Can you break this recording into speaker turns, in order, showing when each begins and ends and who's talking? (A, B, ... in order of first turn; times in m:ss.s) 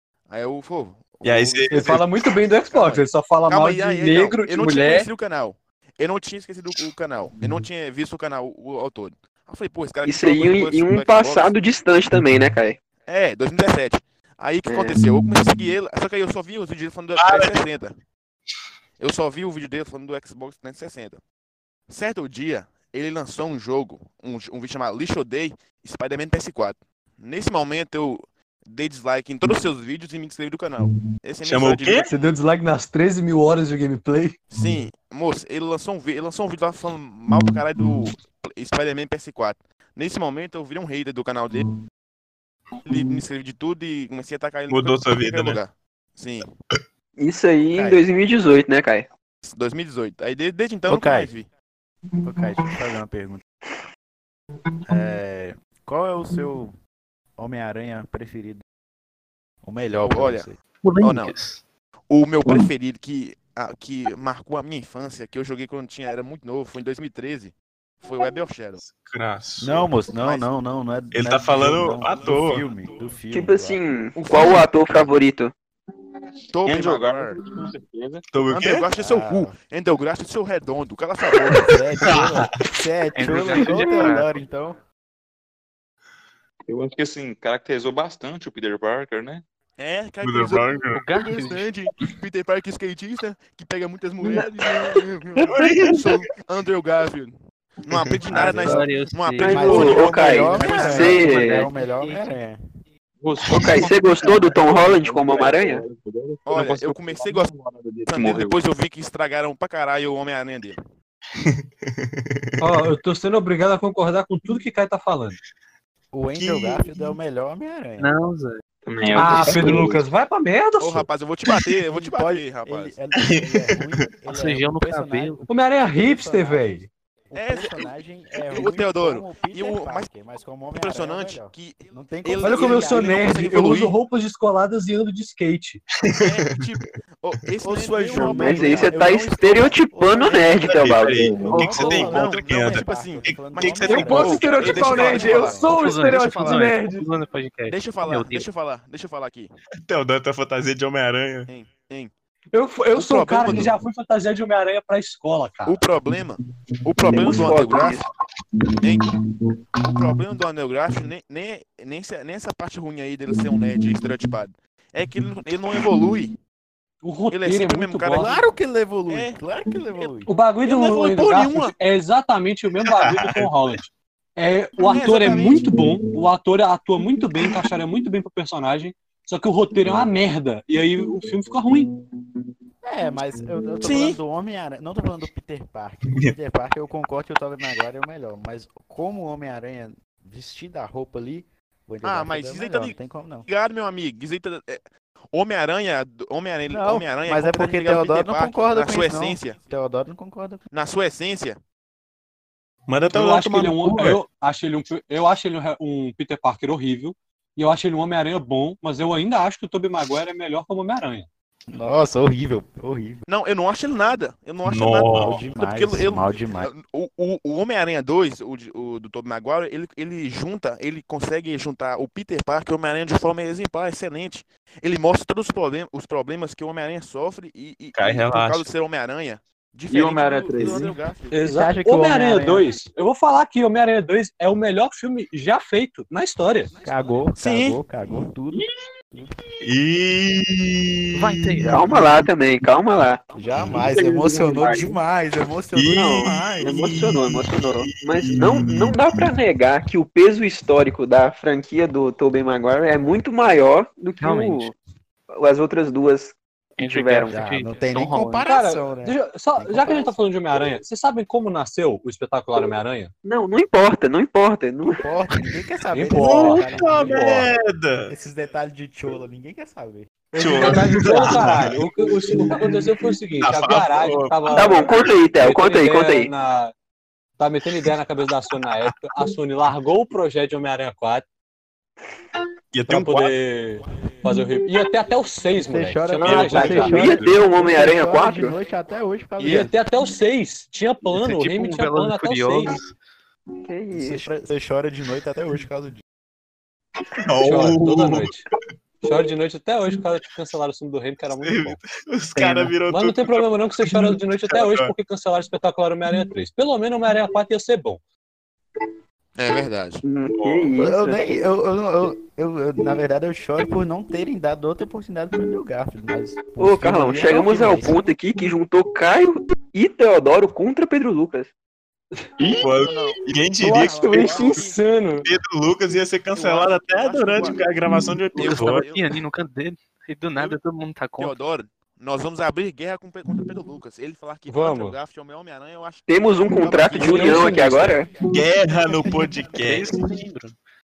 0:00.3-0:02.0 A
0:01.2-0:02.1 B
0:01.7-0:05.1 C
0:02.6-0:11.5 A
0:10.0-0:12.8 D
0:13.0-0:18.0 A
0:14.7-0:15.0 D
0:17.2-0:17.6 B
0:19.0-0:21.2 A
0:21.9-0:32.3 A
0:31.4-0:32.1 B
0:32.1-0:34.4 C
0:34.5-0:41.6 A
0:42.8-0:46.5 A
0:44.7-0:45.6 B
0:47.2-0:49.1 D
0:47.7-0:48.0 E
0:49.4-0:51.5 A
0:50.9-0:51.3 E
0:52.2-0:53.4 E
0:54.9-0:56.7 E
0:57.4-0:58.6 E
0:59.6-1:00.6 E
1:00.0-1:01.3 A
1:00.8-1:01.6 F
1:02.1-1:08.8 A
1:08.8-1:09.9 B
1:09.6-1:13.8 E
1:10.2-1:10.5 A
1:11.1-1:12.9 B
1:13.3-1:15.5 D
1:16.5-1:17.4 A
1:16.6-1:18.3 G
1:18.3-1:18.9 B
1:18.5-1:21.7 A
1:18.9-1:19.6 E
1:21.5-1:22.5 B
1:21.6-1:24.8 E
1:23.1-1:24.3 F
1:26.7-1:29.4 G
1:29.8-1:41.4 A
1:30.2-1:31.0 B
1:30.9-1:31.7 F
1:34.2-1:34.9 D
1:35.4-1:36.2 B
1:37.9-1:38.2 B
1:38.3-1:42.6 E
1:38.3-1:42.2 F
1:39.4-1:41.7 D
1:43.2-1:48.6 G
1:43.4-1:45.8 D
1:46.4-1:47.5 A
1:48.1-1:50.8 A
1:51.4-1:52.7 B
1:52.6-1:55.4 C
1:56.1-1:58.1 E
1:56.3-1:56.9 B
1:58.0-1:58.6 F
1:58.8-2:00.0 G
1:59.1-2:01.1 C
2:00.8-2:03.0 A
2:01.9-2:13.8 E
2:03.2-2:04.0 B
2:04.3-2:05.4 F
2:05.5-2:06.9 C
2:07.3-2:07.9 A
2:08.5-2:10.1 A
2:10.7-2:14.0 A
2:12.4-2:15.8 C
2:16.1-2:19.6 A
2:17.6-2:25.8 E
2:18.1-2:21.3 D
2:20.6-2:24.6 B
2:21.0-2:21.6 G
2:21.5-2:22.2 F
2:21.8-2:26.8 A
2:23.8-2:27.0 C
2:25.7-2:28.5 F
2:27.7-2:29.5 A
2:29.8-2:31.5 B
2:31.5-2:32.1 A
2:32.5-2:35.8 C
2:32.9-2:33.8 A
2:35.6-2:38.1 A
2:37.0-2:38.0 D
2:39.9-2:46.4 A
2:47.0-2:48.3 C
2:47.3-2:48.5 A
2:48.1-2:50.3 E
2:49.1-2:50.1 A
2:50.2-3:01.9 C
2:50.6-2:51.8 A
2:52.9-2:53.7 B
2:54.8-2:55.8 A
2:55.0-2:55.5 E
3:02.8-3:13.4 E
3:03.8-3:04.2 A
3:12.0-3:19.6 A
3:16.7-3:20.6 E
3:20.7-3:21.6 A
3:22.9-3:24.2 B
3:23.1-3:31.3 C
3:31.7-3:33.2 E
3:33.3-3:51.5 A
3:34.6-3:35.4 B
3:35.0-3:36.7 E
3:48.0-3:48.7 B
3:49.9-3:51.0 G
3:51.3-3:56.8 C
3:51.5-3:52.7 E
3:56.8-3:58.6 E
3:57.4-3:57.8 A
3:59.6-4:02.0 B
4:01.1-4:01.9 F
4:01.6-4:03.3 D
4:03.3-4:06.3 E
4:03.7-4:05.0 G
4:05.7-4:08.9 B
4:05.9-4:14.7 D
4:14.2-4:14.7 F
4:15.3-4:17.3 D
4:16.8-4:18.4 F
4:17.3-4:20.1 E
4:18.4-4:23.1 C
4:23.2-4:25.0 D
4:24.8-4:27.4 E
4:25.9-4:27.5 C
4:26.2-4:28.1 B
4:28.0-4:30.1 E
4:30.3-4:36.7 C
4:30.4-4:32.6 B
4:31.0-4:31.3 E
4:33.4-4:35.2 B
4:34.5-4:36.3 D
4:37.4-4:41.2 C
4:42.7-4:43.4 B
4:42.9-4:47.0 C
4:45.6-4:49.7 E
4:46.1-4:48.5 D
4:46.2-4:47.4 B
4:49.4-4:49.7 A
4:49.4-4:52.8 C
4:51.1-4:52.9 F
4:53.6-4:54.2 D
4:53.9-4:56.0 E
4:57.2-4:58.3 B
4:57.4-4:58.4 C
4:59.0-5:01.8 C
5:01.3-5:04.9 B
5:02.4-5:08.0 C
5:09.4-5:10.0 A
5:10.0-5:11.4 D
5:10.3-5:10.7 B
5:10.8-5:18.0 E
5:16.6-5:21.5 D
5:22.5-5:24.8 A
5:22.6-5:24.5 B
5:23.6-5:25.2 C
5:25.2-5:28.8 B
5:26.3-5:27.6 A
5:28.3-5:29.1 A
5:28.4-5:31.4 F
5:31.2-5:38.0 A
5:34.5-5:35.0 C
5:36.1-5:38.1 D
5:37.0-5:38.0 C
5:38.3-5:40.1 B
5:39.6-5:40.6 F